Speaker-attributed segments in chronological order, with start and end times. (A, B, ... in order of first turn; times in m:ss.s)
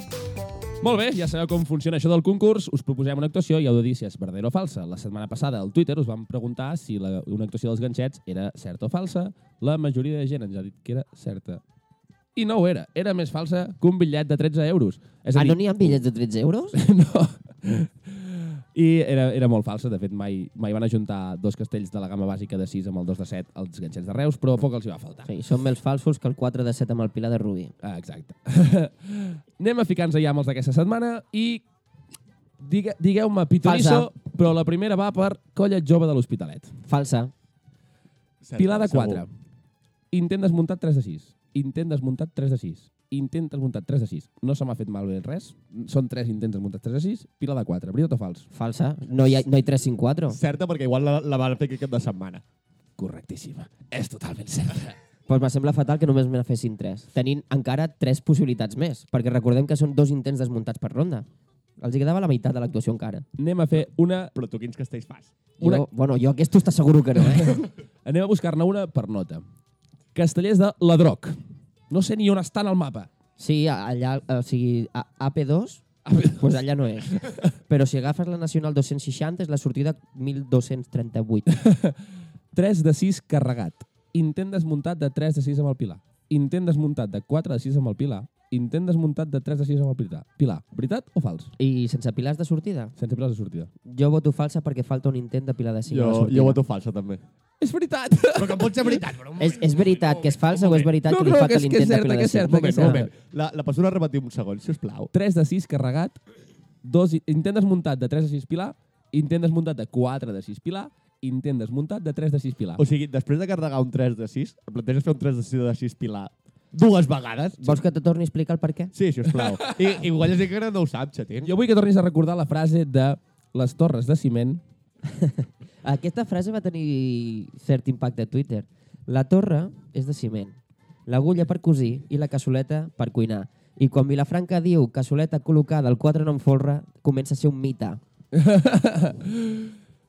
0:00.8-0:11.6 A
0:12.3-0:16.0 A
0:15.3-0:16.8 B
0:16.7-0:25.3 A
0:25.2-0:27.7 B
0:27.8-0:31.6 A
0:32.6-0:36.7 A
0:33.6-0:34.1 B
0:36.9-0:37.3 B
0:38.4-0:39.2 C
0:38.6-0:39.3 A
0:40.1-0:48.4 A
0:48.5-0:50.4 B
0:50.3-0:52.4 C
0:53.0-0:55.0 A
0:55.3-1:01.2 B
1:01.8-1:03.2 B
1:03.4-1:04.3 A
1:04.3-1:05.3 C
1:05.6-1:05.8 A
1:05.6-1:07.6 B
1:07.3-1:09.4 A
1:10.1-1:11.4 A
1:11.9-1:13.1 A
1:13.4-1:21.5 B
1:16.0-1:17.3 A
1:21.5-1:22.0 A
1:22.5-1:31.5 A
1:31.6-1:32.9 B
1:33.0-1:33.7 A
1:33.8-1:36.6 B
1:35.9-1:37.2 C
1:37.6-1:39.0 A
1:38.4-1:40.9 C
1:39.4-1:43.0 B
1:40.9-1:43.1 A
1:42.5-1:45.1 C
1:45.1-1:46.2 A
1:46.8-1:52.8 A
1:52.8-1:57.8 C
1:57.6-1:58.9 B
1:58.9-2:01.5 C
1:59.4-1:59.8 A
2:01.4-2:04.6 A
2:05.2-2:18.0 B
2:18.3-2:19.7 A